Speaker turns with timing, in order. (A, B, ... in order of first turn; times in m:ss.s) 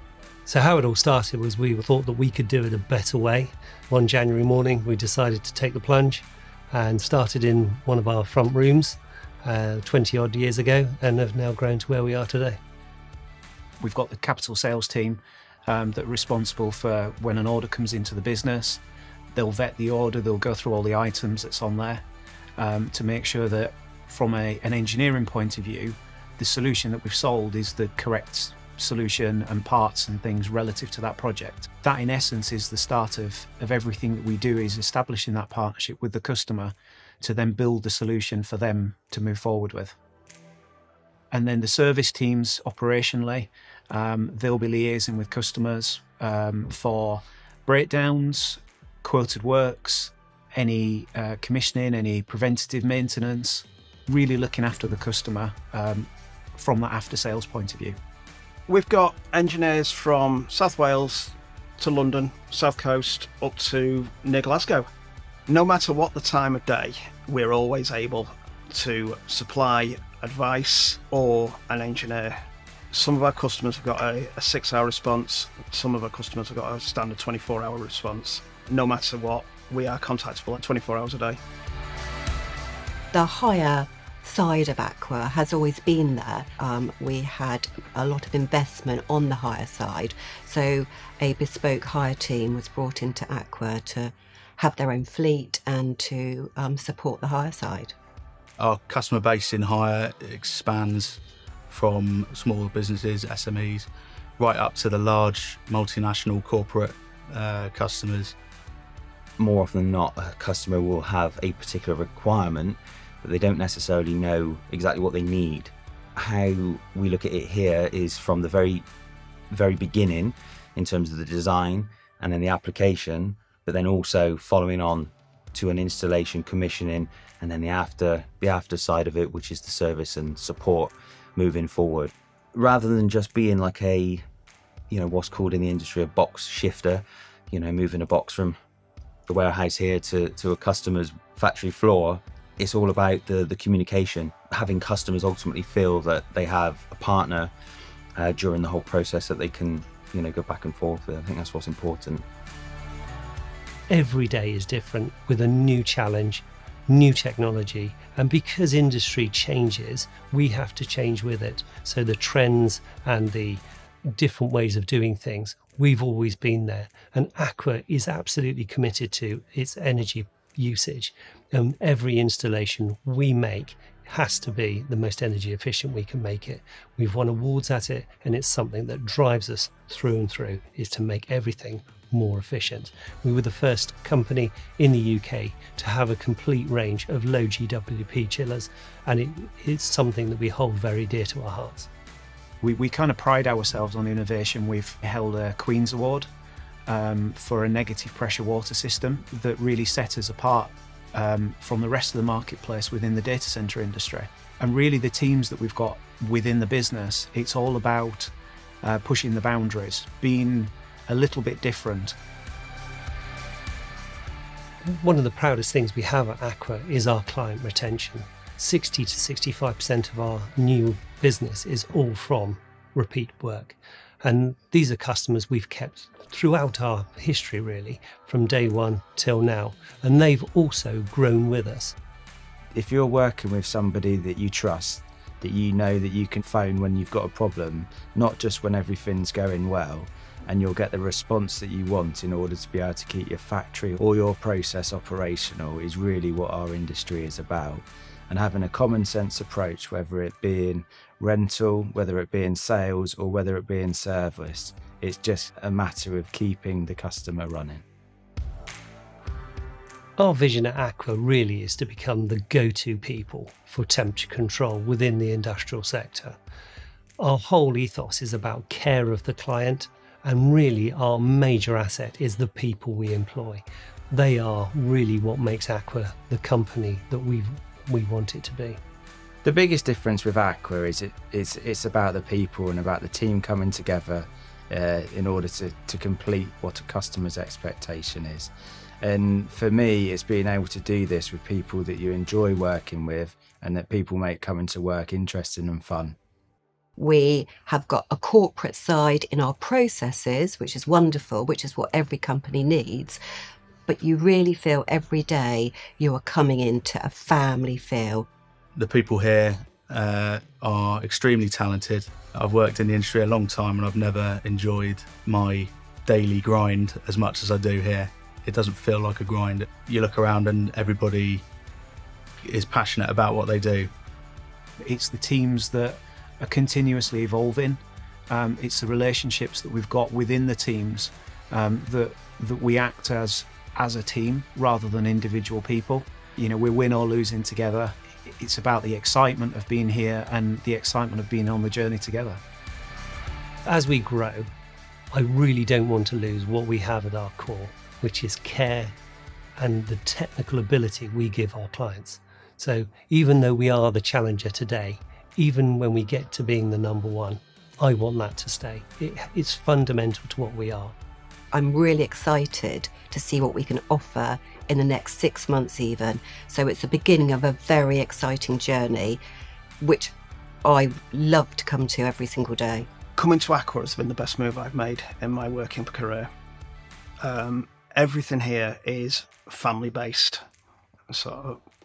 0:00.5-0:12.6 A
0:13.8-0:18.8 B
0:19.3-0:22.0 B
0:22.6-0:40.0 B
0:41.3-0:58.0 B
0:58.7-1:04.9 C
1:05.5-1:12.4 C
1:12.9-1:21.4 C
1:23.1-1:37.9 D
1:38.6-1:48.4 E
1:49.4-1:58.9 F
1:59.5-2:14.2 F
2:14.9-2:18.6 F
2:19.3-2:27.5 F
2:28.2-2:32.2 F
2:33.9-3:11.9 A
3:12.6-3:16.3 B
3:16.9-3:32.2 B
3:34.8-3:52.0 A
3:52.8-4:17.8 G
4:20.2-4:26.4 A
4:27.2-4:38.8 A
4:39.4-4:48.5 G
4:49.0-4:56.2 G
4:57.0-5:03.2 D
5:03.9-5:08.3 D
5:08.8-5:21.4 E
5:22.4-5:23.9 E
5:24.8-5:42.4 B
5:43.7-5:44.5 A
5:45.1-5:49.0 A
5:49.6-6:01.0 A
6:01.5-6:09.2 D
6:09.8-6:12.9 D
6:13.2-6:16.3 C
6:17.2-6:20.4 C
6:21.1-6:21.6 C